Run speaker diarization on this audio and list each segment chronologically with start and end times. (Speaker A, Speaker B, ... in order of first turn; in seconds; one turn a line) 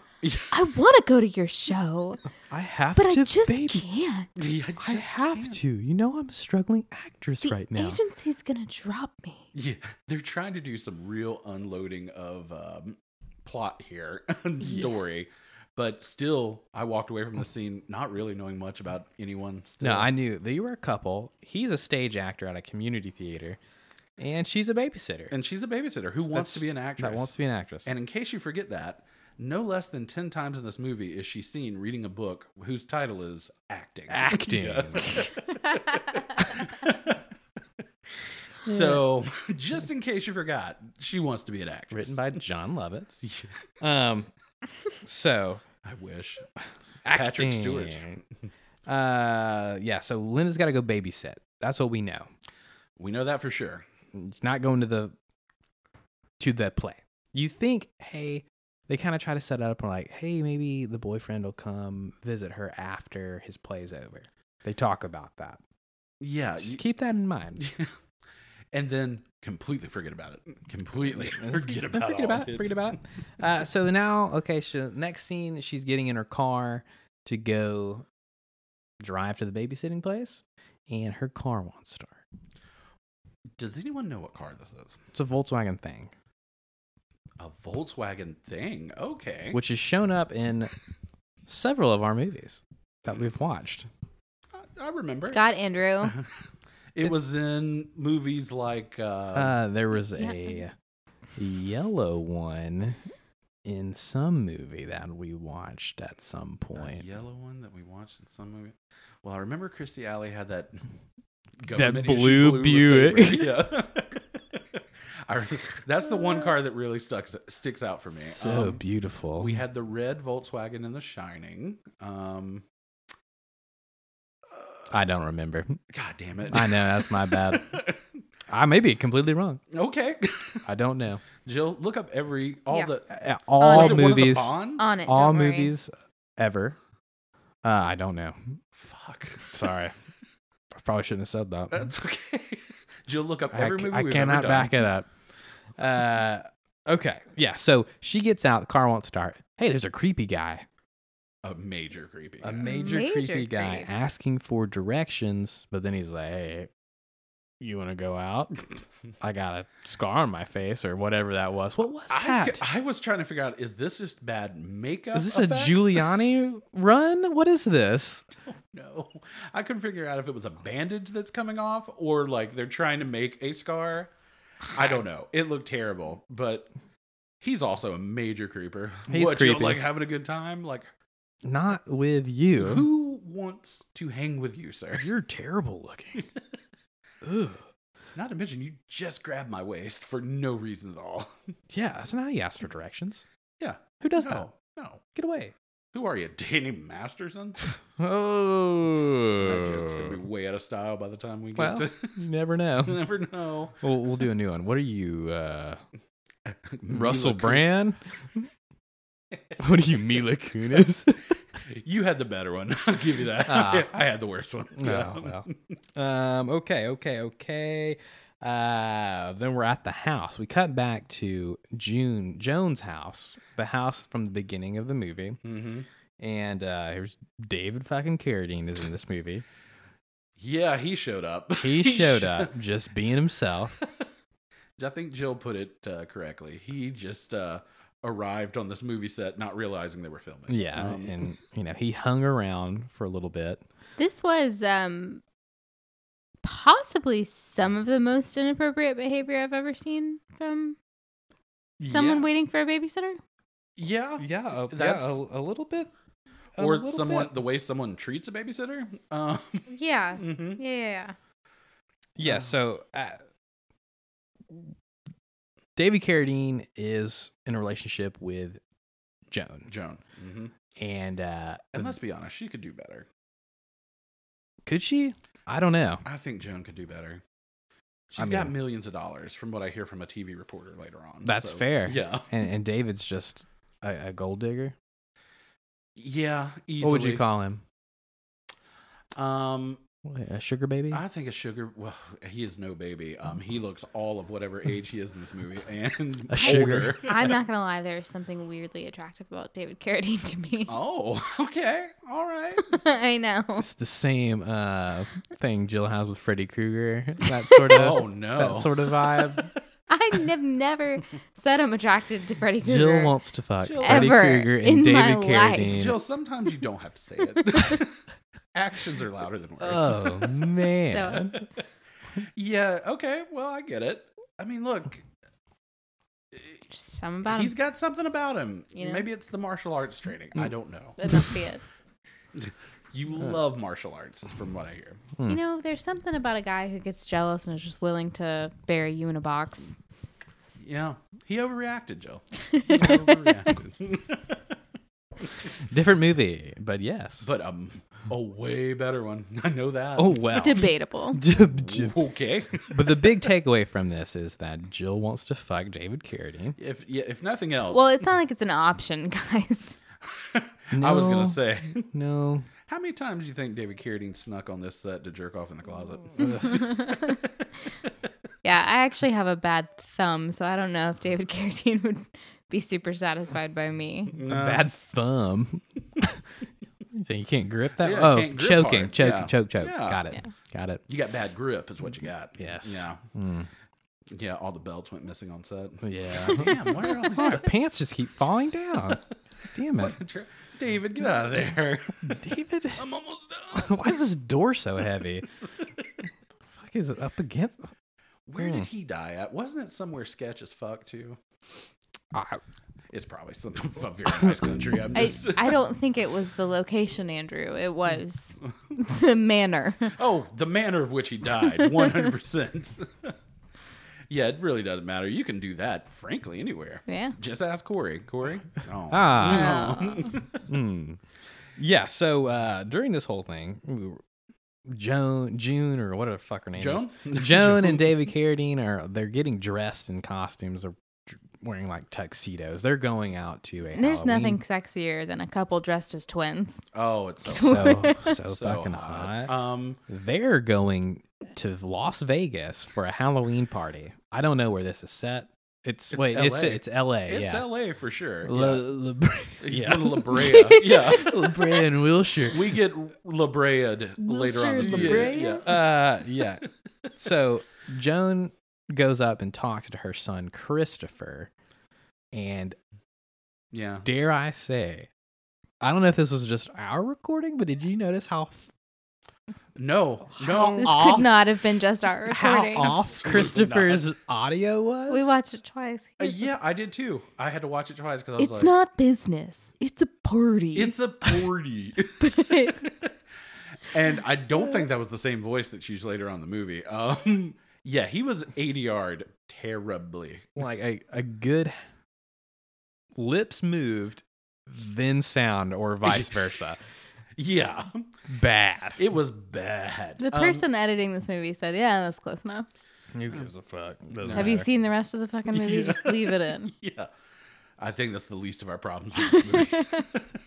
Speaker A: 0.2-0.6
Speaker B: 0.5-2.2
Speaker C: 2.5-3.9
Speaker B: 3.0-4.3
Speaker A: 4.4-5.6
Speaker C: 4.8-8.0
Speaker B: 7.4-9.4
Speaker A: 9.5-20.1
Speaker C: 19.8-23.6
Speaker C: 24.2-25.3
Speaker A: 25.3-27.3
Speaker C: 26.2-27.9
Speaker A: 27.9-37.2
Speaker C: 34.1-35.3
Speaker A: 38.6-42.4
Speaker C: 38.7-39.0
Speaker C: 41.9-43.2
Speaker A: 43.2-43.5
Speaker C: 43.8-44.3
Speaker C: 45.0-45.6
Speaker A: 45.8-46.5
Speaker C: 47.0-48.2
Speaker A: 47.1-48.2
Speaker C: 48.9-52.3
Speaker A: 53.0-53.9
Speaker C: 54.1-55.1
Speaker C: 56.4-65.6
Speaker A: 66.2-66.8
Speaker C: 66.6-67.6
Speaker A: 67.6-67.9
Speaker A: 68.7-73.0
Speaker C: 71.1-78.1
Speaker C: 79.0-82.2
Speaker A: 83.6-85.0
Speaker C: 85.1-86.1
Speaker A: 87.4-89.6
Speaker C: 89.5-90.7
Speaker C: 91.5-93.9
Speaker A: 94.6-95.4
Speaker B: 95.3-96.1
Speaker A: 97.0-99.6
Speaker C: 99.3-100.7
Speaker B: 100.2-100.6
Speaker C: 101.4-103.0
Speaker C: 103.6-107.0
Speaker A: 106.8-110.8
Speaker A: 111.6-118.8
Speaker C: 111.7-113.7
Speaker C: 118.2-119.6
Speaker A: 119.4-122.6
Speaker A: 124.5-124.9
Speaker C: 124.9-125.8
Speaker A: 125.9-128.0
Speaker C: 126.5-127.8
Speaker C: 128.5-129.6
Speaker A: 129.7-130.6
Speaker C: 130.6-131.2
Speaker A: 131.4-133.1
Speaker C: 133.1-134.6
Speaker B: 133.6-135.7
Speaker A: 133.6-135.0
Speaker C: 135.1-136.8
Speaker C: 137.6-138.5
Speaker A: 138.8-139.6
Speaker C: 139.5-139.9
Speaker C: 140.7-141.9
Speaker A: 141.7-144.8
Speaker C: 143.5-145.1
Speaker C: 145.8-150.7
Speaker A: 151.4-152.6
Speaker C: 152.4-156.7
Speaker B: 152.6-153.9
Speaker C: 157.6-158.6
Speaker C: 159.2-162.6
Speaker A: 162.1-166.1
Speaker C: 165.1-168.3
Speaker A: 168.5-174.1
Speaker A: 174.7-176.7
Speaker A: 177.4-180.9
Speaker C: 179.1-179.8
Speaker C: 181.4-182.9
Speaker A: 182.6-185.1
Speaker C: 185.0-186.3
Speaker C: 187.2-187.6
Speaker A: 188.1-191.3
Speaker C: 191.7-193.2
Speaker A: 193.6-195.0
Speaker C: 194.0-194.5
Speaker C: 195.1-195.5
Speaker A: 195.9-197.7
Speaker C: 198.0-200.2
Speaker A: 199.4-202.2
Speaker C: 201.6-203.0
Speaker A: 202.8-203.8
Speaker C: 203.8-205.8
Speaker A: 206.5-207.7
Speaker C: 206.9-208.5
Speaker C: 209.6-211.4
Speaker A: 211.7-215.6
Speaker C: 213.4-213.9
Speaker C: 214.8-225.4
Speaker A: 225.4-225.9
Speaker C: 226.2-229.4
Speaker A: 230.4-232.5
Speaker C: 231.6-233.8
Speaker A: 234.8-241.2
Speaker C: 240.5-243.6
Speaker B: 244.0-245.2
Speaker B: 246.4-250.8
Speaker A: 251.8-252.2
Speaker C: 251.8-252.2
Speaker B: 251.8-253.2
Speaker A: 253.8-255.2
Speaker C: 254.2-255.9
Speaker C: 256.6-257.3
Speaker A: 256.6-259.7
Speaker B: 259.7-261.2
Speaker A: 260.2-260.6
Speaker C: 262.2-263.2
Speaker A: 262.2-262.5
Speaker C: 265.8-268.6
Speaker C: 269.3-269.7
Speaker A: 269.7-270.5
Speaker C: 270.8-272.0
Speaker A: 271.8-273.1
Speaker C: 274.7-276.0
Speaker A: 276.1-277.2
Speaker A: 278.1-282.3
Speaker C: 278.2-278.5
Speaker C: 281.2-284.8
Speaker A: 286.0-287.2
Speaker C: 286.8-287.6
Speaker A: 289.1-289.8
Speaker C: 290.1-291.0
Speaker A: 290.9-297.4
Speaker C: 296.3-297.3
Speaker B: 296.4-300.8
Speaker A: 300.7-302.8
Speaker B: 302.6-303.7
Speaker C: 303.6-309.5
Speaker A: 307.7-309.5
Speaker B: 309.9-313.1
Speaker C: 312.6-316.0
Speaker A: 313.6-314.2
Speaker B: 313.8-315.8
Speaker A: 315.6-317.9
Speaker B: 317.4-317.8
Speaker A: 318.5-320.6
Speaker C: 319.6-321.4
Speaker B: 320.8-321.3
Speaker A: 322.3-325.0
Speaker A: 326.3-326.6
Speaker B: 326.7-327.5
Speaker A: 327.2-331.2
Speaker B: 328.8-329.1
Speaker B: 331.0-331.6
Speaker A: 332.4-335.0
Speaker B: 335.3-339.8
Speaker A: 340.6-344.4
Speaker B: 342.5-343.6
Speaker C: 345.5-347.3
Speaker A: 347.2-350.6
Speaker C: 350.0-352.0
Speaker B: 350.3-351.2
Speaker A: 351.4-353.2
Speaker C: 352.7-356.6
Speaker A: 356.6-358.0
Speaker B: 357.7-359.8
Speaker A: 360.1-361.9
Speaker C: 360.7-362.5
Speaker A: 362.7-367.3
Speaker C: 366.2-366.8
Speaker B: 366.2-367.2
Speaker B: 368.4-374.2
Speaker A: 374.2-374.7
Speaker C: 374.2-376.3
Speaker C: 376.9-380.8
Speaker A: 377.8-380.0
Speaker A: 380.9-383.0
Speaker C: 382.4-383.5
Speaker A: 384.1-387.5
Speaker C: 385.8-390.0
Speaker A: 389.7-392.2
Speaker C: 392.0-392.8
Speaker A: 392.8-394.0
Speaker C: 393.5-395.3
Speaker C: 396.5-397.7
Speaker A: 398.3-401.2
Speaker C: 398.4-398.7
Speaker C: 402.1-402.4
Speaker A: 402.9-405.6
Speaker C: 404.1-405.1
Speaker B: 404.9-410.0
Speaker A: 410.0-413.1
Speaker A: 414.1-420.4
Speaker B: 416.9-417.1
Speaker C: 418.9-419.8
Speaker B: 419.2-420.2
Speaker C: 420.5-421.0
Speaker C: 421.6-424.0
Speaker C: 424.7-434.4
Speaker A: 426.6-428.0
Speaker B: 433.7-436.6
Speaker A: 436.7-439.8
Speaker C: 437.3-439.3
Speaker B: 437.3-438.2
Speaker C: 439.9-447.5
Speaker A: 445.9-448.6
Speaker C: 448.2-452.6
Speaker A: 449.4-451.6
Speaker B: 450.1-451.0
Speaker A: 452.3-455.7
Speaker B: 454.0-455.4
Speaker C: 454.6-461.3
Speaker C: 462.1-462.6
Speaker A: 463.5-463.9
Speaker C: 463.9-464.9
Speaker C: 465.6-468.5
Speaker A: 469.6-471.1
Speaker C: 470.2-471.1
Speaker B: 470.4-472.7
Speaker C: 472.1-475.1
Speaker A: 472.4-473.9
Speaker B: 474.9-476.3
Speaker A: 476.0-478.5
Speaker B: 478.2-481.3
Speaker A: 480.6-482.9
Speaker B: 482.0-482.6
Speaker A: 483.7-490.4
Speaker C: 490.4-491.6
Speaker C: 492.9-496.6
Speaker A: 495.8-496.3
Speaker A: 497.2-497.9
Speaker C: 498.1-498.8
Speaker A: 498.8-500.5
Speaker B: 500.0-502.5
Speaker C: 502.9-504.5
Speaker A: 504.0-504.4
Speaker B: 504.1-506.5
Speaker A: 505.3-506.9
Speaker A: 507.6-510.1
Speaker B: 509.0-509.9